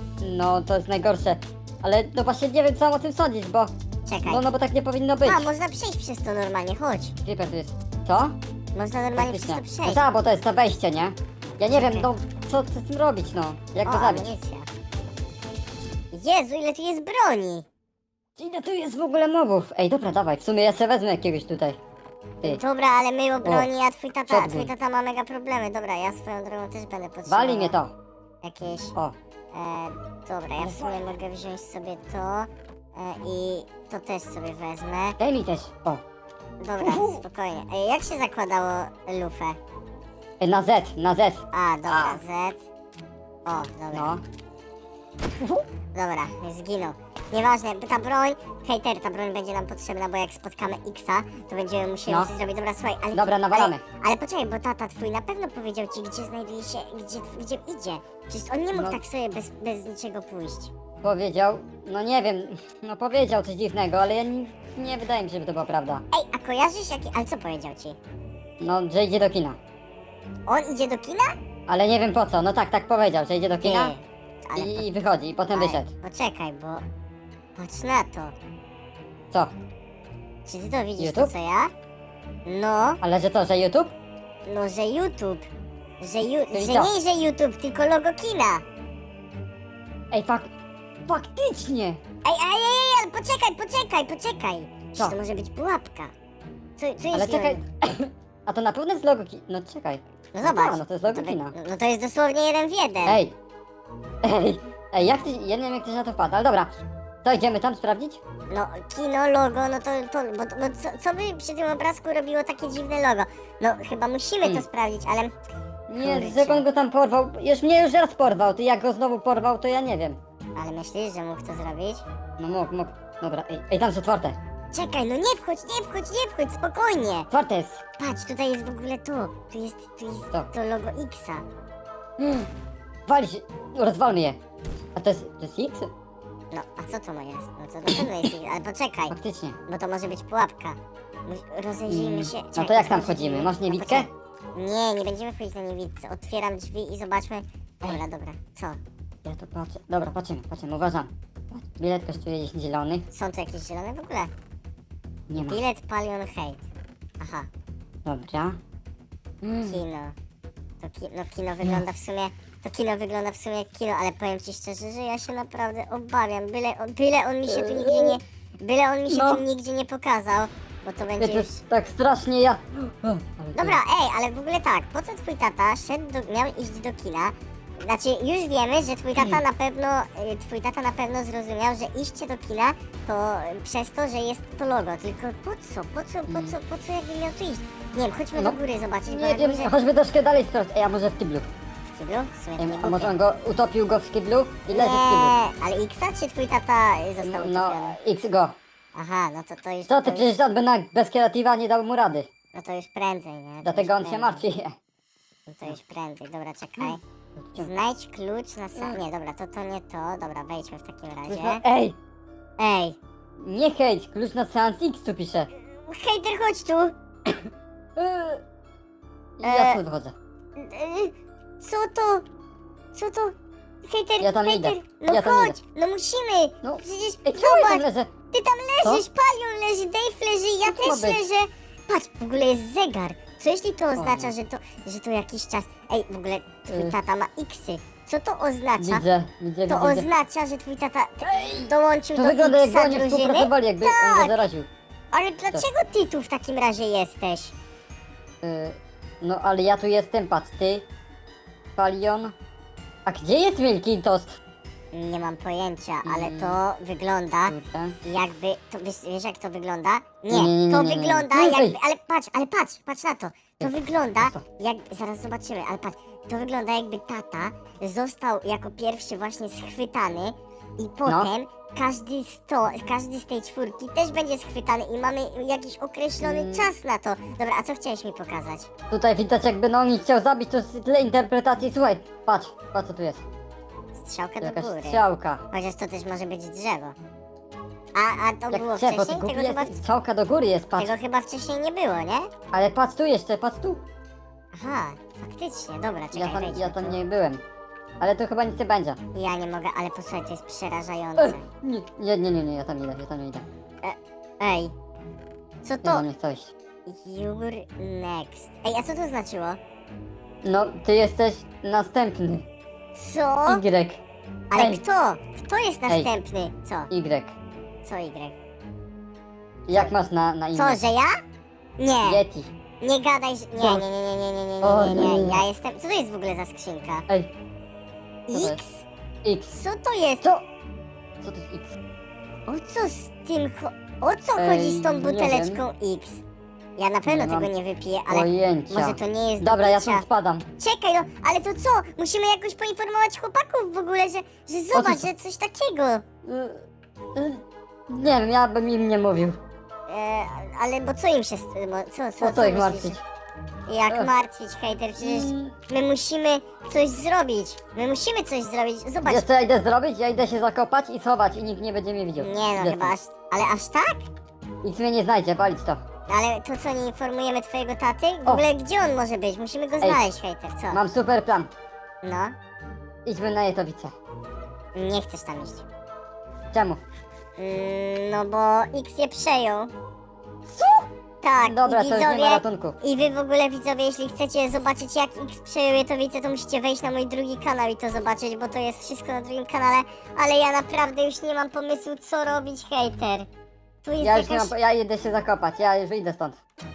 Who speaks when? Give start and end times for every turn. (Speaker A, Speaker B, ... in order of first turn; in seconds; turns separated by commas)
Speaker A: 0.2-3.7, Speaker B: 4.1-4.4, Speaker A: 4.2-5.5, Speaker B: 5.2-7.2, Speaker A: 7.2-8.3, Speaker B: 8.7-10.0, Speaker A: 9.2-14.3, Speaker B: 11.7-12.1, Speaker B: 13.8-14.7, Speaker B: 16.1-17.6, Speaker A: 18.4-21.8, Speaker B: 22.4-27.8, Speaker A: 23.4-23.7, Speaker A: 24.3-24.7, Speaker A: 27.3-27.9, Speaker B: 28.4-28.9, Speaker B: 29.5-35.2, Speaker A: 30.6-31.0, Speaker A: 35.2-36.0, Speaker B: 36.6-39.6, Speaker A: 36.8-37.2, Speaker A: 40.4-42.2, Speaker B: 41.5-42.6, Speaker B: 43.5-44.1, Speaker A: 43.9-44.2, Speaker B: 45.9-60.7, Speaker A: 53.1-53.8, Speaker A: 58.7-59.0, Speaker A: 61.0-66.0, Speaker B: 66.1-68.0, Speaker A: 68.6-69.6, Speaker B: 70.5-71.3, Speaker A: 71.7-73.9, Speaker B: 73.6-74.8, Speaker A: 74.5-75.9, Speaker B: 75.5-76.8, Speaker B: 77.5-78.3, Speaker B: 80.4-81.7, Speaker A: 81.0-81.3, Speaker B: 82.5-83.0, Speaker A: 83.0-83.9, Speaker B: 84.5-85.4, Speaker B: 86.0-88.6, Speaker A: 86.5-86.9, Speaker A: 90.1-90.5, Speaker A: 91.0-92.0, Speaker B: 92.2-96.1, Speaker B: 96.8-97.6, Speaker A: 97.1-101.5, Speaker B: 100.3-103.2, Speaker A: 103.0-103.3, Speaker A: 104.2-106.7, Speaker A: 107.2-108.2, Speaker B: 108.5-115.3, Speaker A: 115.9-120.2, Speaker B: 116.0-116.6, Speaker B: 120.5-122.0, Speaker A: 122.4-124.4, Speaker B: 124.7-127.3, Speaker A: 127.3-127.8, Speaker B: 128.0-131.4, Speaker A: 132.2-132.5, Speaker A: 133.1-134.4, Speaker A: 134.9-135.9, Speaker B: 136.5-139.1, Speaker A: 139.1-139.6, Speaker B: 139.7-148.8, Speaker A: 141.9-144.1, Speaker A: 149.2-153.0, Speaker B: 153.1-154.3, Speaker A: 155.3-155.6, Speaker B: 155.4-156.6, Speaker B: 157.2-157.5, Speaker A: 158.0-158.6, Speaker A: 159.4-159.8, Speaker B: 159.6-160.1, Speaker B: 160.8-171.6, Speaker A: 167.5-168.2, Speaker A: 169.1-169.4, Speaker A: 171.2-173.8, Speaker B: 173.5-189.7, Speaker A: 179.2-179.4, Speaker A: 186.3-186.5, Speaker A: 189.1-191.5, Speaker B: 191.9-193.1, Speaker A: 192.6-195.3, Speaker B: 194.7-198.0, Speaker A: 197.2-198.6, Speaker B: 198.9-200.3, Speaker A: 199.9-202.3, Speaker B: 202.5-204.4, Speaker A: 203.6-204.8, Speaker B: 205.5-207.0, Speaker A: 206.8-207.7, Speaker B: 207.6-211.6, Speaker A: 211.3-212.0, Speaker B: 212.6-213.0, Speaker A: 213.4-215.5, Speaker B: 215.6-216.9, Speaker A: 217.9-218.4, Speaker A: 219.4-220.1, Speaker B: 219.4-219.8, Speaker B: 220.6-222.2, Speaker B: 222.9-223.3, Speaker B: 223.8-239.0, Speaker A: 224.2-225.6, Speaker A: 226.6-228.1, Speaker A: 230.7-231.2, Speaker A: 234.0-234.3, Speaker A: 236.7-236.9, Speaker A: 238.8-240.1, Speaker B: 239.7-244.4, Speaker A: 241.2-244.7, Speaker B: 245.1-247.5, Speaker A: 248.4-250.8, Speaker A: 251.8-252.3, Speaker A: 253.1-254.4, Speaker B: 254.9-278.7, Speaker A: 256.0-256.6, Speaker A: 257.5-258.0, Speaker A: 260.3-261.8, Speaker A: 263.6-264.4, Speaker A: 271.1-271.3, Speaker A: 276.2-276.7, Speaker A: 278.9-283.2, Speaker B: 283.9-286.9, Speaker A: 284.4-285.4, Speaker B: 287.9-289.8, Speaker A: 288.5-290.9, Speaker B: 290.8-292.3, Speaker A: 292.5-293.8, Speaker B: 294.5-297.0, Speaker A: 296.1-297.4, Speaker A: 298.0-299.0, Speaker B: 299.1-301.4, Speaker A: 301.2-303.4, Speaker B: 303.8-304.7, Speaker B: 305.6-306.0, Speaker A: 305.8-306.5, Speaker B: 306.9-309.6, Speaker A: 310.4-312.4, Speaker B: 312.9-313.6, Speaker A: 313.5-314.0, Speaker B: 314.5-316.9, Speaker A: 314.6-314.8, Speaker A: 316.9-317.4, Speaker B: 317.8-318.3, Speaker A: 319.7-320.8, Speaker B: 320.5-321.1, Speaker B: 321.8-322.2, Speaker A: 322.0-322.5, Speaker B: 322.8-327.1, Speaker A: 323.6-323.8, Speaker A: 324.6-325.4, Speaker B: 328.3-328.9, Speaker A: 328.3-328.6, Speaker A: 329.2-329.5, Speaker B: 329.5-330.3, Speaker A: 331.2-331.7, Speaker B: 332.5-336.2, Speaker A: 334.4-335.6, Speaker B: 336.8-340.0, Speaker A: 337.1-337.5, Speaker A: 338.1-340.4, Speaker B: 340.6-346.0, Speaker A: 344.7-345.1, Speaker A: 346.2-346.6, Speaker A: 347.1-349.4, Speaker B: 349.9-353.0, Speaker A: 352.2-353.0, Speaker B: 353.7-359.2, Speaker A: 355.0-355.5, Speaker A: 359.0-362.9, Speaker B: 362.2-364.1, Speaker A: 364.6-365.8, Speaker B: 366.1-370.8, Speaker A: 370.7-371.5, Speaker B: 372.0-372.3, Speaker A: 373.0-373.9, Speaker B: 374.7-375.6, Speaker A: 376.5-376.8, Speaker B: 377.4-379.7, Speaker A: 380.5-380.9, Speaker B: 381.2-393.3, Speaker A: 381.4-382.8, Speaker B: 393.8-394.5, Speaker A: 394.0-396.4